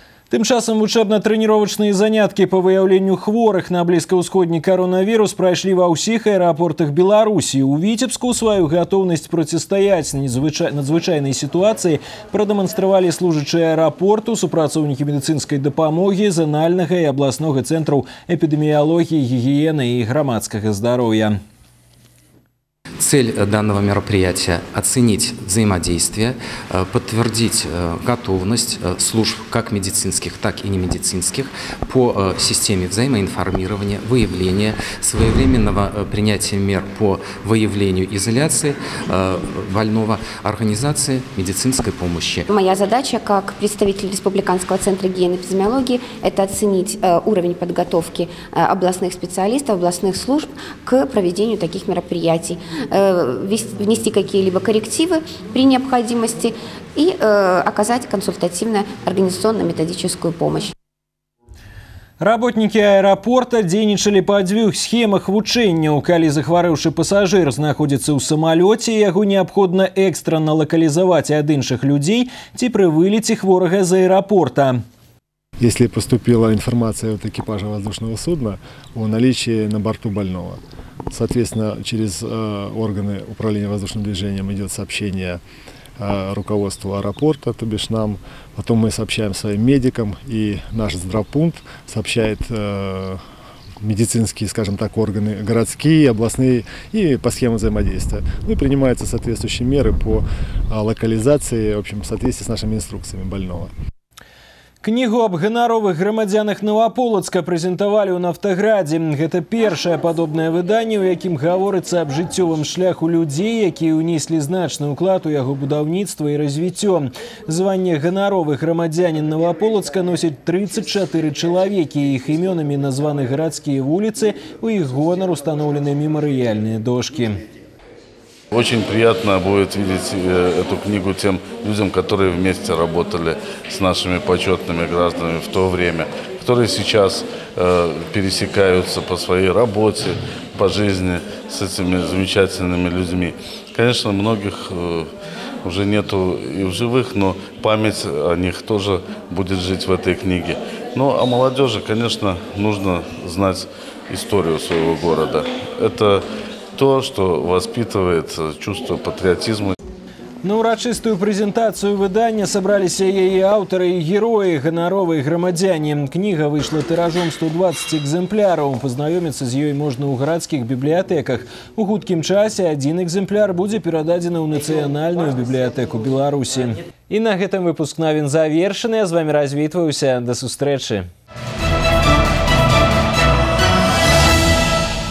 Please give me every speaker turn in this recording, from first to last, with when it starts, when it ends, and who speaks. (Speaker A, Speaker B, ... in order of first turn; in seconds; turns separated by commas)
Speaker A: 0.3-21.4, Speaker B: 23.0-46.8, Speaker C: 42.5-60.7, Speaker B: 47.5-48.0, Speaker A: 62.2-74.8, Speaker D: 75.6-80.6, Speaker D: 81.1-85.4, Speaker D: 86.0-93.2, Speaker D: 93.8-103.7, Speaker A: 104.8-127.4, Speaker E: 128.5-145.1, Speaker E: 145.6-156.2, Speaker E: 156.8-159.7, Speaker A: 160.4-181.1